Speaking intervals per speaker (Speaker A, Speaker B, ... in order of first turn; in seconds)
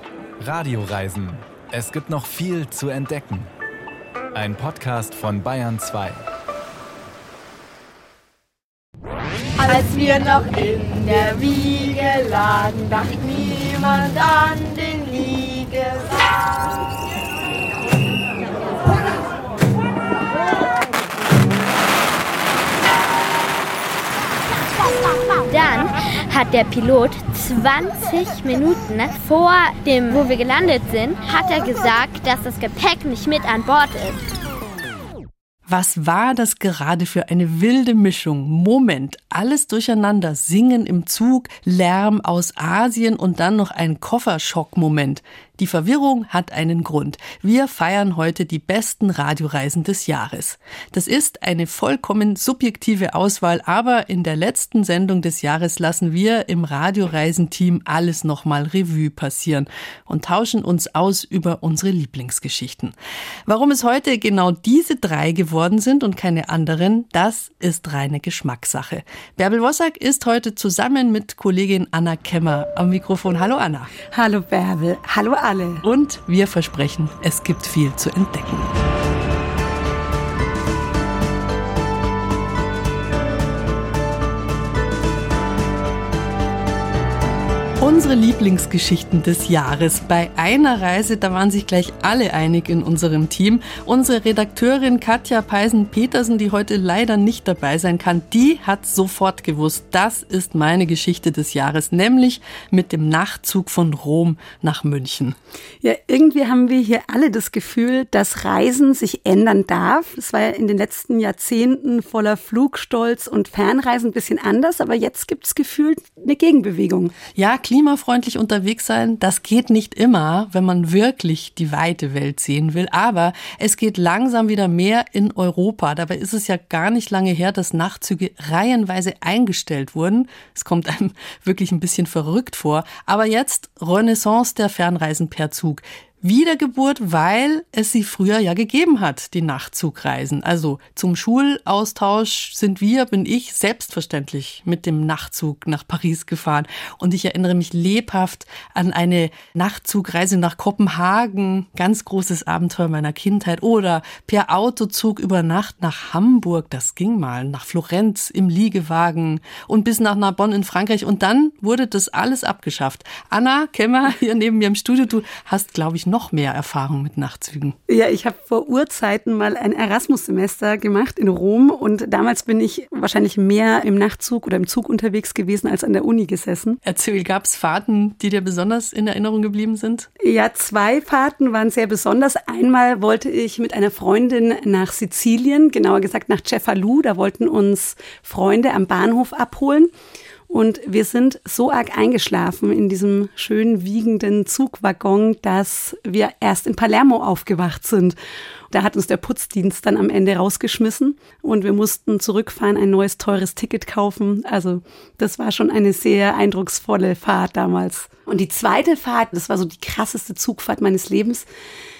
Speaker A: 0.4-3.5, 4.3-6.2
Speaker B: 9.6-16.4
Speaker C: 25.5-34.2
Speaker D: 35.7-62.9, 63.5-73.9, 75.8-78.8, 87.8-105.3, 117.3-167.8, 176.8-180.1
Speaker E: 74.1-75.8, 105.8-117.1, 167.9-176.8, 180.2-189.9, 190.5-198.2, 198.7-211.5